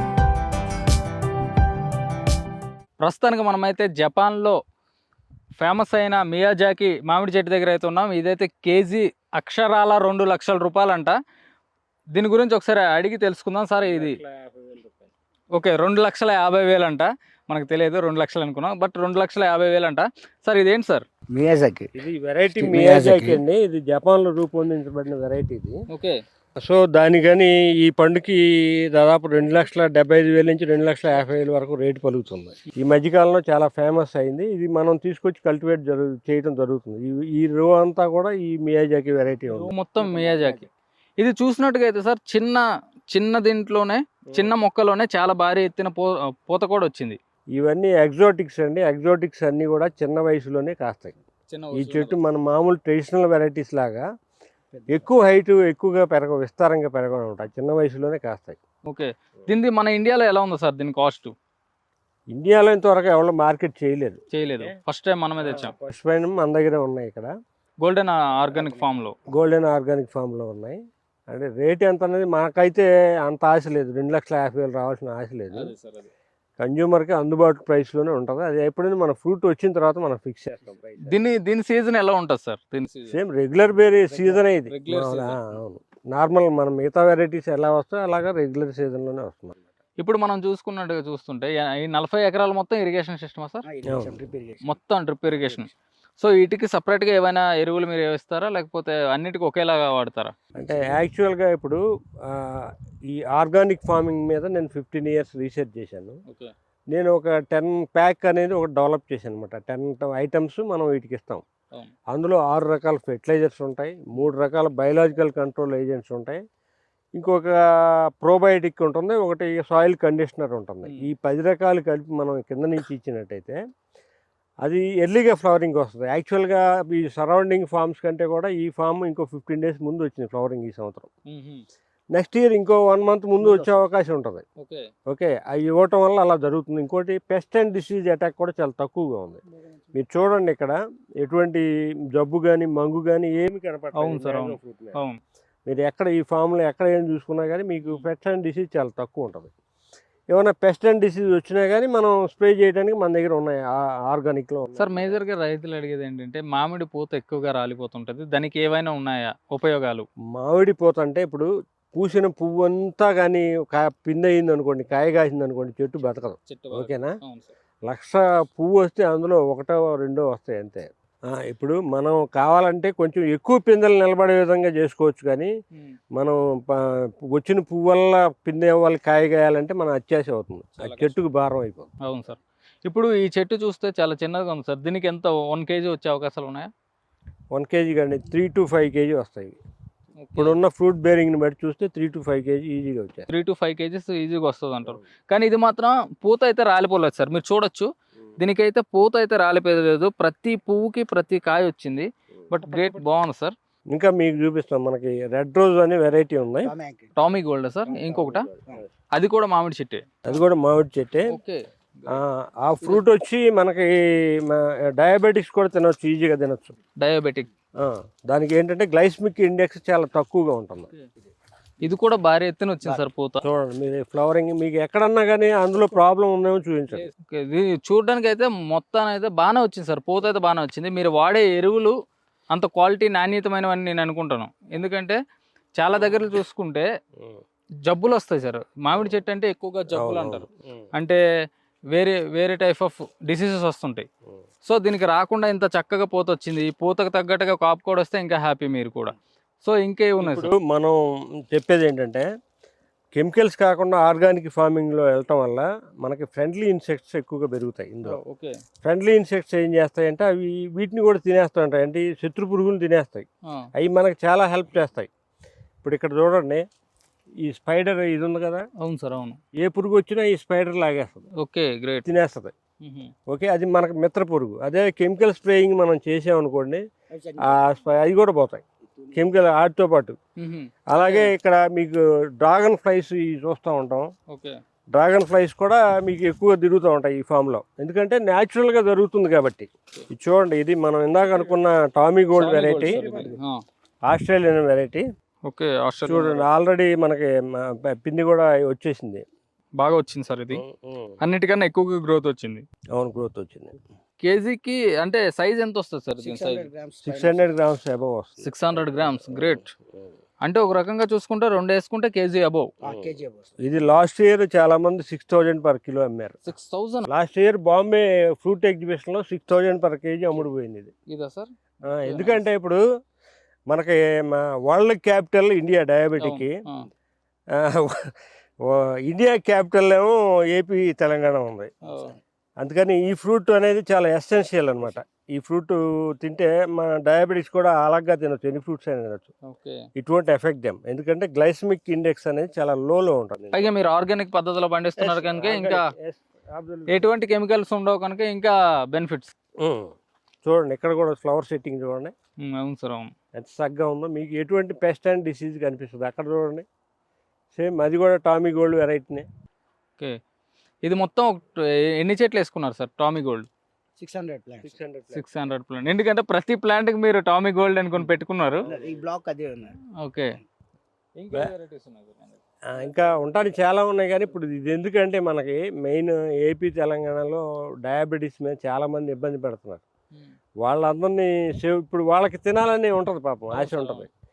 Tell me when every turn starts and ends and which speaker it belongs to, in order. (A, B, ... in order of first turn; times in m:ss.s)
0:03.0-0:04.6 A
0:05.6-0:11.2 A
0:12.1-0:14.2 A
0:13.8-0:15.1 B
0:15.5-0:21.0 A
0:21.3-0:21.9 C
0:22.0-0:25.8 B
0:22.6-0:23.4 C
0:25.9-0:26.2 A
0:26.6-0:39.7 B
0:39.5-0:47.2 A
0:40.0-0:40.7 C
0:47.6-0:51.2 B
0:51.5-0:52.2 A
0:51.7-0:54.0 B
0:54.8-0:55.0 C
0:54.9-0:58.6 B
0:58.9-1:01.3 A
1:02.3-1:04.7 B
1:04.3-1:05.8 A
1:05.4-1:07.3 B
1:07.8-1:09.2 A
1:09.3-1:15.7 B
1:15.6-1:16.1 A
1:16.6-1:21.2 B
1:21.0-1:23.2 A
1:23.1-1:29.6 B
1:24.1-1:24.5 C
1:24.7-1:25.5 A
1:30.0-1:33.7 A
1:33.6-1:34.7 C
1:33.9-1:34.2 B
1:34.6-1:40.3 A
1:40.6-1:46.2 B
1:40.7-1:41.0 C
1:46.9-1:51.4 B
1:52.1-1:56.4 B
1:57.2-1:57.6 B
1:58.2-2:03.6 B
2:00.8-2:01.1 A
2:04.6-2:11.1 B
2:11.3-2:11.6 A
2:12.1-2:14.4 B
2:13.4-2:13.8 A
2:14.6-2:14.9 A
2:15.1-2:19.4 B
2:19.9-2:25.0 B
2:23.9-2:25.2 A
2:25.7-2:29.5 B
2:30.3-2:35.2 B
2:34.8-2:40.1 A
2:40.4-2:47.1 B
2:46.5-2:47.5 A
2:47.8-2:55.5 B
2:56.2-3:01.9 B
3:00.8-3:01.2 A
3:02.0-3:06.7 A
3:07.5-3:09.6 B
3:10.2-3:10.6 A
3:10.4-3:13.3 B
3:13.3-3:23.5 A
3:23.9-3:26.7 B
3:26.6-3:27.3 C
3:27.2-3:28.5 A
3:28.0-3:28.4 B
3:29.1-3:30.1 A
3:30.2-3:31.4 B
3:31.3-3:32.2 A
3:32.1-3:36.7 B
3:37.0-3:37.5 A
3:37.8-3:40.9 B
3:41.8-3:43.4 A
3:43.4-3:47.1 B
3:47.0-3:51.9 A
3:52.5-3:55.2 A
3:55.8-3:56.9 A
3:57.8-4:01.2 A
3:59.9-4:00.5 B
4:01.9-4:04.1 A
4:04.6-4:10.5 A
4:10.2-4:11.0 B
4:11.5-4:12.3 B
4:13.1-4:18.2 B
4:18.1-4:18.6 A
4:18.8-4:23.2 B
4:23.8-4:25.1 B
4:25.8-4:26.6 B
4:27.4-4:28.7 B
4:28.8-4:29.4 A
4:29.6-4:31.3 B
4:31.4-4:32.1 A
4:32.0-4:32.5 B
4:32.8-4:33.1 A
4:33.3-4:36.8 B
4:37.1-4:37.6 C
4:37.4-4:40.2 B
4:38.9-4:39.3 C
4:40.4-4:41.3 A
4:40.9-4:44.1 B
4:44.3-4:44.6 A
4:44.9-4:53.3 B
4:52.4-4:53.6 A
4:54.1-4:55.0 B
4:55.5-4:56.5 A
4:56.0-4:59.2 B
4:59.8-5:00.6 A
5:00.5-5:01.2 B
5:01.2-5:02.6 A
5:02.9-5:03.8 B
5:04.2-5:06.7 A
5:06.2-5:07.5 C
5:07.0-5:09.8 B
5:08.4-5:09.7 A
5:10.4-5:12.7 A
5:12.8-5:13.6 C
5:12.8-5:16.4 B
5:16.4-5:17.1 A
5:17.1-5:20.9 B
5:21.1-5:22.4 A
5:21.9-5:22.8 B
5:23.7-5:26.5 B
5:26.2-5:26.9 A
5:27.6-5:28.1 B
5:28.7-5:31.7 B
5:31.8-5:32.2 A
5:31.9-5:32.2 C
5:32.6-5:39.3 B
5:39.5-5:39.8 A
5:40.0-5:43.7 B
5:43.5-5:45.9 A
5:45.0-5:47.1 B
5:46.9-5:49.4 A
5:49.6-5:49.9 B
5:50.4-5:52.1 B
5:52.4-5:53.1 A
5:53.4-5:56.7 B
5:57.5-5:59.2 B
6:00.8-6:03.5 A
6:04.0-6:04.8 C
6:04.6-6:05.2 B
6:05.1-6:08.7 A
6:08.6-6:09.0 B
6:08.6-6:09.8 C
6:10.0-6:10.3 A
6:11.2-6:12.4 A
6:12.7-6:19.8 B
6:12.9-6:13.2 A
6:20.6-6:24.1 B
6:23.5-6:24.1 A